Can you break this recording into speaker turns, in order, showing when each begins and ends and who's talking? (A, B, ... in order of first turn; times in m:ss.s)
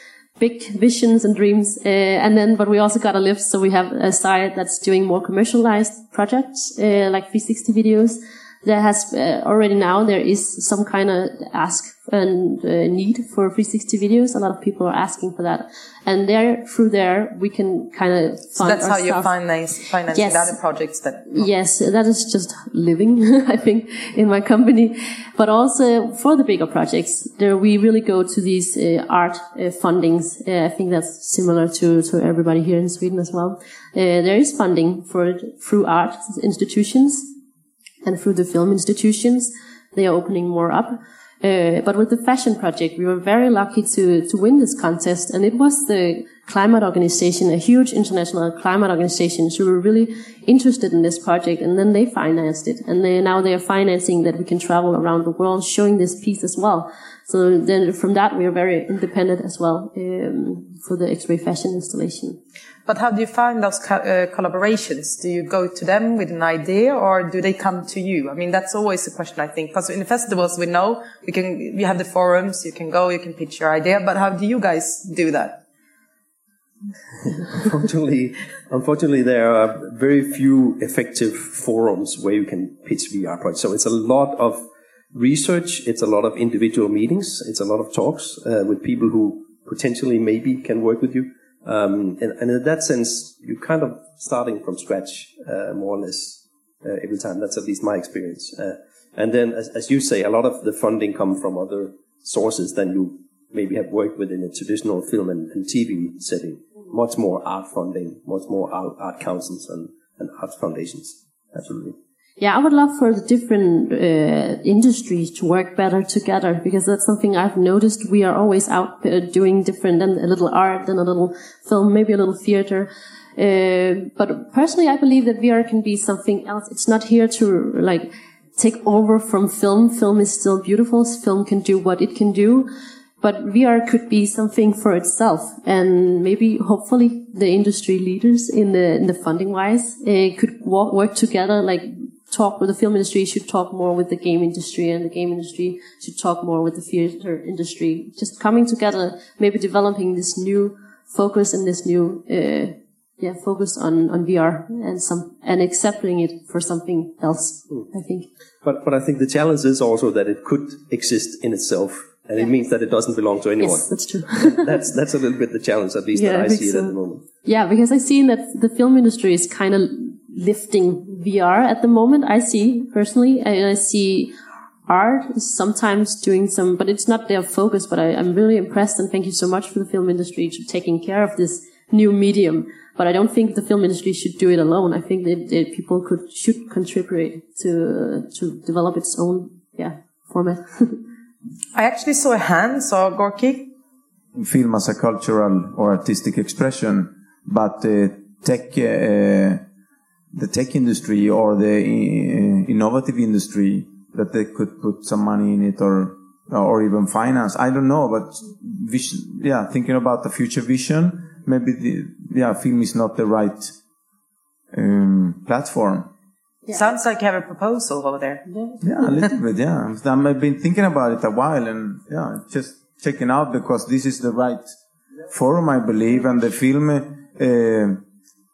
0:00.4-0:19.3 A
0:18.6-0:21.5 B
0:20.1-0:20.6 A
0:21.3-0:37.3 A
0:38.0-1:02.4 A
1:02.8-1:15.6 B
1:17.2-1:52.0 C
1:52.4-2:12.7 A
2:13.2-2:38.2 A
2:38.6-2:47.2 C
2:43.6-2:44.8 A
2:46.1-2:54.3 A
2:54.9-3:11.0 A
3:11.7-3:13.6 B
3:14.3-3:19.6 D
3:20.3-3:33.7 D
3:34.7-3:36.1 D
3:36.7-3:38.4 B
3:38.5-3:39.1 A
3:38.8-3:44.7 D
3:45.3-3:48.0 D